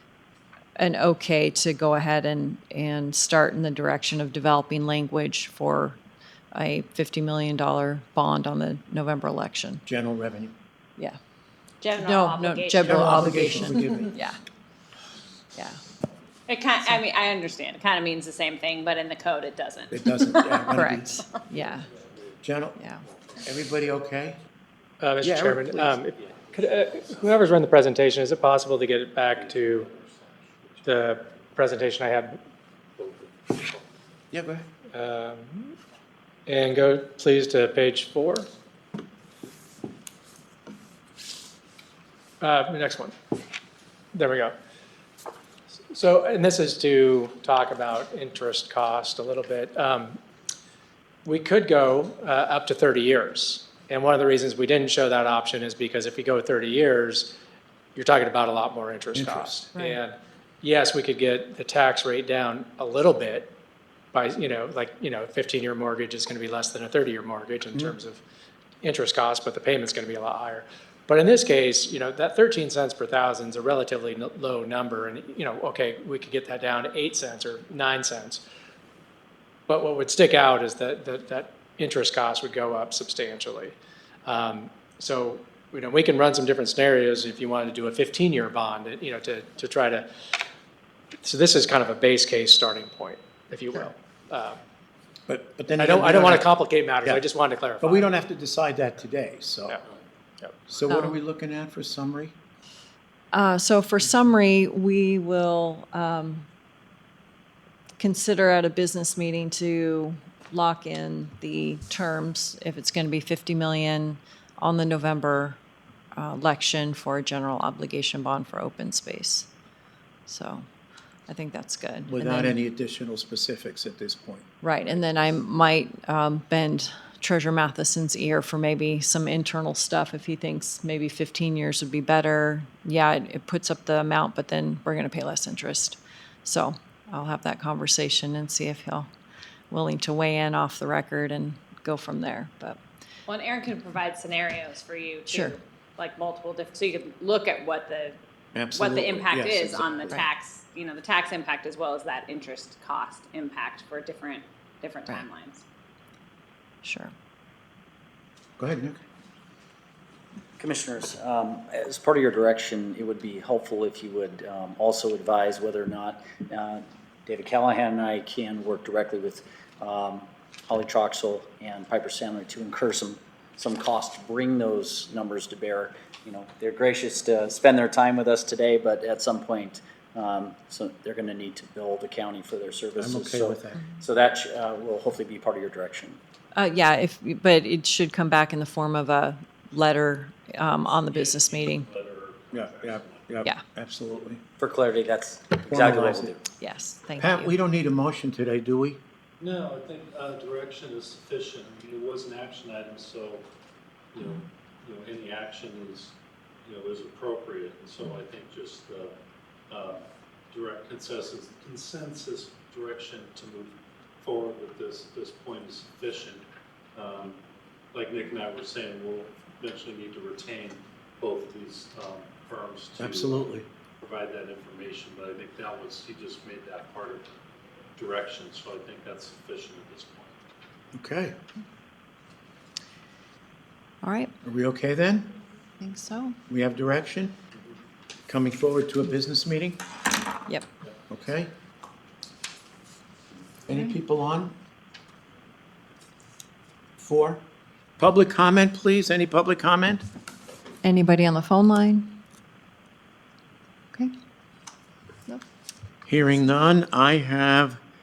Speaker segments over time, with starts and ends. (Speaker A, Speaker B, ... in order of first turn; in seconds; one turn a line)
Speaker A: 0.8-6.0
Speaker A: 6.5-9.8
Speaker B: 9.9-10.5
Speaker C: 11.8-13.1
Speaker A: 12.0-14.4
Speaker B: 12.8-14.1
Speaker A: 15.6-15.8
Speaker C: 16.5-20.9
Speaker B: 19.9-21.1
Speaker A: 20.7-21.9
Speaker D: 21.5-22.4
Speaker B: 22.4-22.8
Speaker A: 22.8-23.1
Speaker D: 23.1-23.4
Speaker B: 23.4-24.4
Speaker E: 25.0-29.9
Speaker B: 25.2-26.0
Speaker D: 26.2-27.5
Speaker D: 29.3-31.5
Speaker E: 30.8-32.4
Speaker D: 33.0-33.9
Speaker B: 34.3-34.7
Speaker E: 34.9-35.7
Speaker E: 36.5-38.5
Speaker E: 42.4-43.1
Speaker E: 44.1-44.5
Speaker E: 45.9-50.2
Speaker E: 51.2-57.4
Speaker E: 58.0-63.5
Speaker B: 59.1-59.6
Speaker E: 64.1-68.2
Speaker E: 68.8-78.4
Speaker E: 79.7-90.1
Speaker E: 91.2-94.6
Speaker B: 95.3-96.5
Speaker E: 95.8-98.1
Speaker B: 97.8-99.8
Speaker B: 100.7-102.4
Speaker A: 100.9-101.2
Speaker A: 103.3-106.5
Speaker A: 108.0-115.6
Speaker A: 116.1-119.5
Speaker A: 120.3-120.7
Speaker A: 121.3-122.6
Speaker B: 122.1-124.5
Speaker A: 124.6-139.1
Speaker A: 139.7-142.8
Speaker C: 143.3-148.2
Speaker A: 145.3-145.6
Speaker B: 148.5-150.3
Speaker C: 148.7-155.6
Speaker A: 156.8-157.1
Speaker B: 158.6-159.0
Speaker F: 160.6-186.2
Speaker B: 183.0-183.9
Speaker A: 186.6-191.9
Speaker D: 191.1-193.3
Speaker B: 192.5-194.4
Speaker F: 194.6-196.4
Speaker B: 195.7-196.3
Speaker A: 196.6-197.5
Speaker B: 197.2-199.0
Speaker D: 199.4-203.4
Speaker D: 204.1-209.2
Speaker D: 209.7-217.4
Speaker D: 217.9-223.5
Speaker B: 223.0-223.7
Speaker D: 224.0-227.3
Speaker D: 228.0-230.3
Speaker B: 230.9-231.4
Speaker A: 234.0-234.3
Speaker B: 234.4-235.4
Speaker A: 235.8-236.4
Speaker B: 236.5-237.4
Speaker B: 238.3-239.8
Speaker B: 241.1-241.5
Speaker B: 243.7-244.6
Speaker B: 247.0-247.4
Speaker B: 248.0-250.1
Speaker A: 250.8-252.2
Speaker B: 256.1-257.8